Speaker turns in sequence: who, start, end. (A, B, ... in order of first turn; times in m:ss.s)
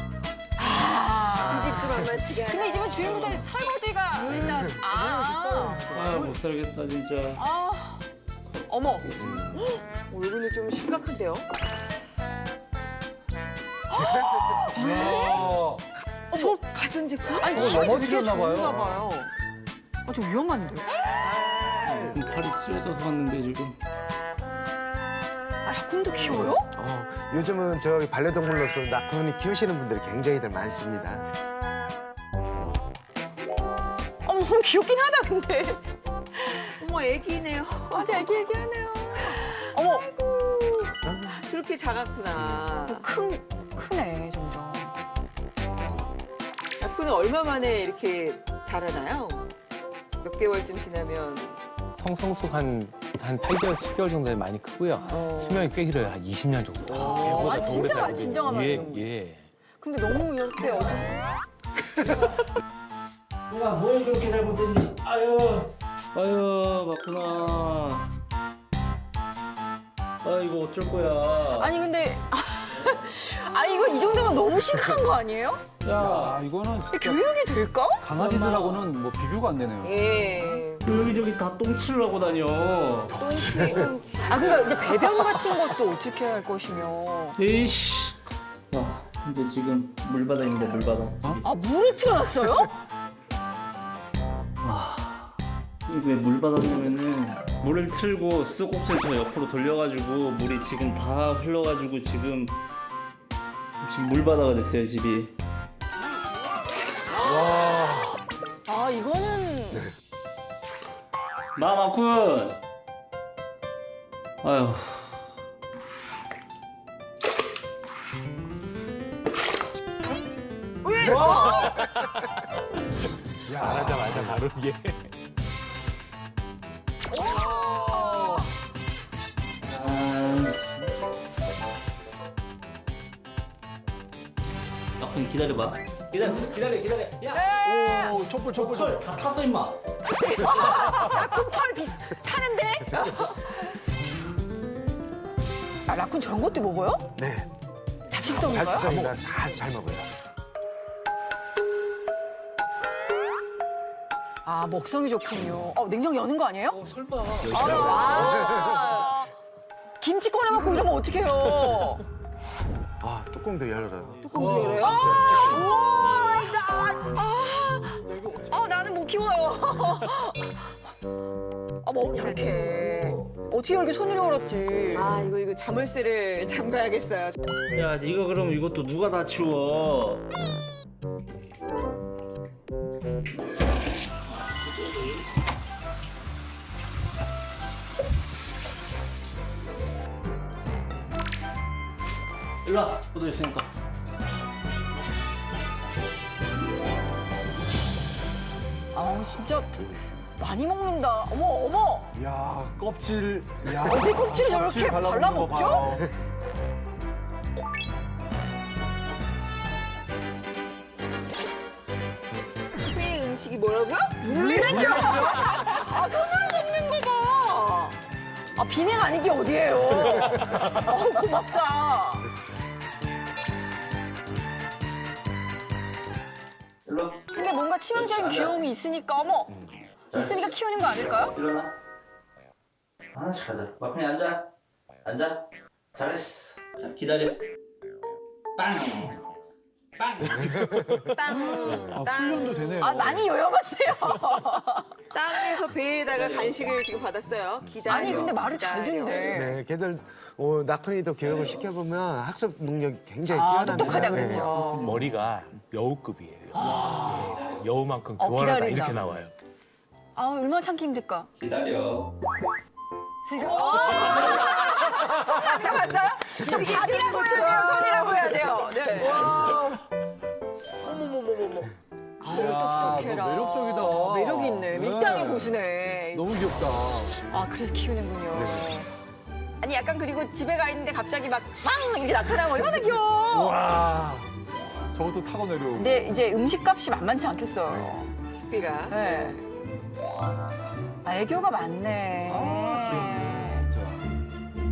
0:00.6-0:06.0 A
0:01.4-0:03.4 B
0:03.0-0:03.4 C
0:04.3-0:06.4 D
0:04.3-0:04.7 E
0:05.9-0:07.4 C
0:07.4-0:08.1 A
0:08.7-0:09.8 A
0:09.2-0:09.6 E
0:10.0-0:11.5 B
0:13.9-0:15.6 A
0:14.1-0:14.7 E
0:14.7-0:15.8 D
0:16.3-0:16.6 A
0:16.3-0:17.5 B
0:17.4-0:19.3 A
0:17.5-0:19.0 D
0:20.1-0:21.0 A
0:21.1-0:22.3 E
0:21.9-0:23.8 C
0:25.6-0:26.7 A
0:26.2-0:31.2 E
0:34.2-0:35.8 A
0:36.4-0:36.7 A
0:36.8-0:38.3 B
0:37.9-0:40.1 A
0:39.3-0:43.1 B
0:41.0-0:41.4 E
0:42.8-0:45.0 A
0:46.8-0:49.6 B
0:50.2-0:51.6 B
0:52.0-0:59.5 F
0:55.0-0:55.6 A
0:56.9-0:59.1 A
0:59.8-1:01.2 A
1:03.5-1:08.1 C
1:10.2-1:11.7 C
1:11.6-1:15.6 A
1:15.8-1:16.4 C
1:15.9-1:17.2 D
1:16.9-1:18.8 A
1:18.0-1:20.6 D
1:19.8-1:20.9 B
1:20.8-1:23.2 C
1:23.2-1:24.8 B
1:23.3-1:23.8 D
1:24.2-1:27.4 A
1:27.4-1:28.2 C
1:28.7-1:31.5 C
1:31.4-1:32.8 A
1:34.6-1:35.3 C
1:35.9-1:42.6 C
1:43.8-1:45.3 C
1:47.2-1:48.1 D
1:48.7-1:49.9 A
1:51.6-1:52.6 C
1:54.4-1:55.2 C
2:00.8-2:01.8 A
2:01.1-2:01.5 D
2:01.3-2:02.4 F
2:03.5-2:05.1 F
2:03.5-2:04.2 D
2:07.1-2:08.5 A
2:07.3-2:08.4 D
2:09.7-2:10.8 C
2:15.0-2:17.6 C
2:17.3-2:18.2 A
2:17.6-2:19.0 D
2:18.5-2:19.8 C
2:20.2-2:23.8 A
2:25.9-2:27.1 A
2:27.2-2:27.5 E
2:28.1-2:28.9 A
2:28.2-2:29.2 F
2:28.3-2:30.1 E
2:34.4-2:36.9 A
2:36.8-2:38.4 D
2:37.4-2:39.3 A
2:37.4-2:38.2 F
2:37.6-2:38.7 E
2:37.8-2:39.2 B
2:40.0-2:42.0 A
2:43.0-2:44.3 E
2:44.2-2:45.1 B
2:44.3-2:45.0 D
2:44.6-2:50.7 A
2:45.1-2:45.4 E
2:45.3-2:45.6 C
2:48.1-2:48.5 D
2:51.8-2:55.2 A
2:52.0-2:53.1 B
2:54.9-2:57.4 B
2:57.7-3:00.2 C
3:04.5-3:05.2 C
3:12.6-3:13.7 C
3:18.9-3:22.1 A
3:22.1-3:26.1 D
3:23.8-3:26.0 A
3:32.8-3:34.5 B
3:34.2-3:38.0 A
3:34.7-3:35.4 D
3:38.6-3:42.3 A
3:46.9-3:47.2 C
3:47.3-3:51.4 A
3:47.9-3:48.6 C
3:50.1-3:51.7 C
3:53.1-3:54.5 C
3:55.0-3:57.4 C
3:58.6-3:59.2 C
4:00.0-4:00.5 C
4:00.4-4:01.1 E
4:01.1-4:02.8 B
4:01.3-4:03.2 D
4:02.7-4:05.6 A
4:05.1-4:09.5 B
4:06.1-4:06.8 C
4:07.6-4:08.2 E
4:07.9-4:09.6 A
4:09.3-4:14.6 E
4:11.2-4:11.7 C
4:13.3-4:14.9 A
4:14.5-4:19.3 F
4:14.7-4:15.0 C
4:16.6-4:17.4 A
4:18.2-4:19.2 A
4:20.2-4:21.3 A
4:21.4-4:22.1 C
4:23.2-4:29.6 A
4:23.9-4:24.4 C
4:26.4-4:27.9 D
4:29.0-4:29.8 D
4:29.1-4:29.6 C
4:30.8-4:31.7 D
4:32.2-4:36.7 A
4:32.2-4:37.2 D
4:37.3-4:38.9 A
4:39.6-4:43.6 A
4:43.3-4:44.3 D
4:44.9-4:46.1 D
4:45.7-4:48.1 A
4:48.3-4:49.1 B
4:48.9-4:49.4 A
4:51.0-4:53.7 A
4:52.8-4:54.0 D